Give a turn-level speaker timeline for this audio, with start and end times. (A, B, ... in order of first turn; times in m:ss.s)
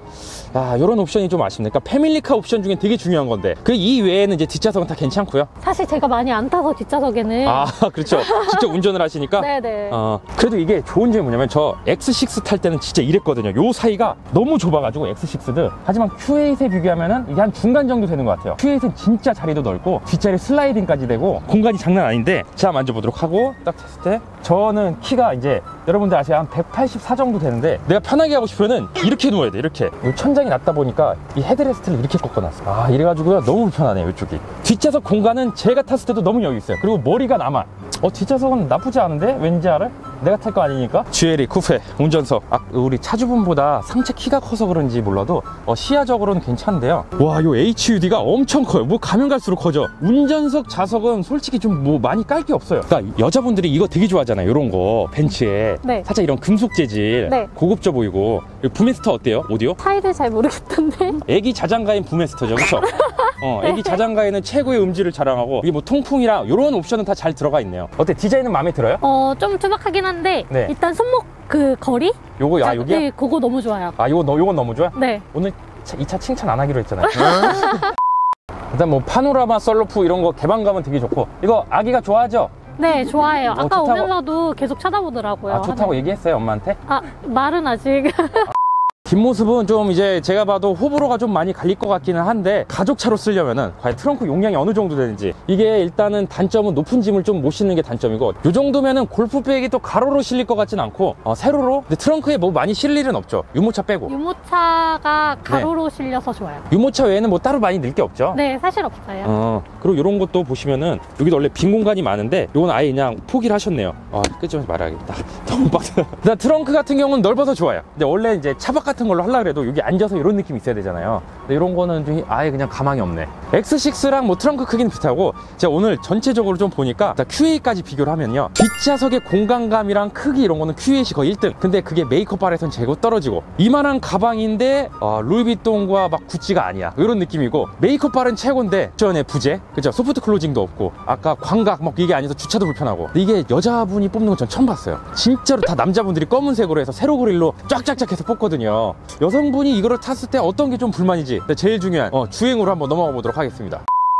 0:00.4-0:05.5 A
0:05.6-0:08.8 B
0:07.4-0:59.8 A
0:09.4-0:10.0 B
0:57.2-0:57.5 B
0:59.8-1:01.2 B
1:01.2-1:09.0 A
1:02.8-1:04.0 B
1:09.0-1:14.0 B
1:10.5-1:10.7 A
1:12.4-1:13.1 A
1:14.0-1:17.9 A
1:14.9-1:15.2 B
1:17.1-1:17.9 B
1:18.7-1:22.5 A
1:22.8-1:26.0 B
1:23.3-1:24.1 A
1:25.5-1:26.8 A
1:26.9-1:28.5 B
1:29.0-1:44.1 A
1:44.1-1:46.7 B
1:46.7-1:48.4 A
1:48.3-1:49.3 B
1:49.2-2:33.8 A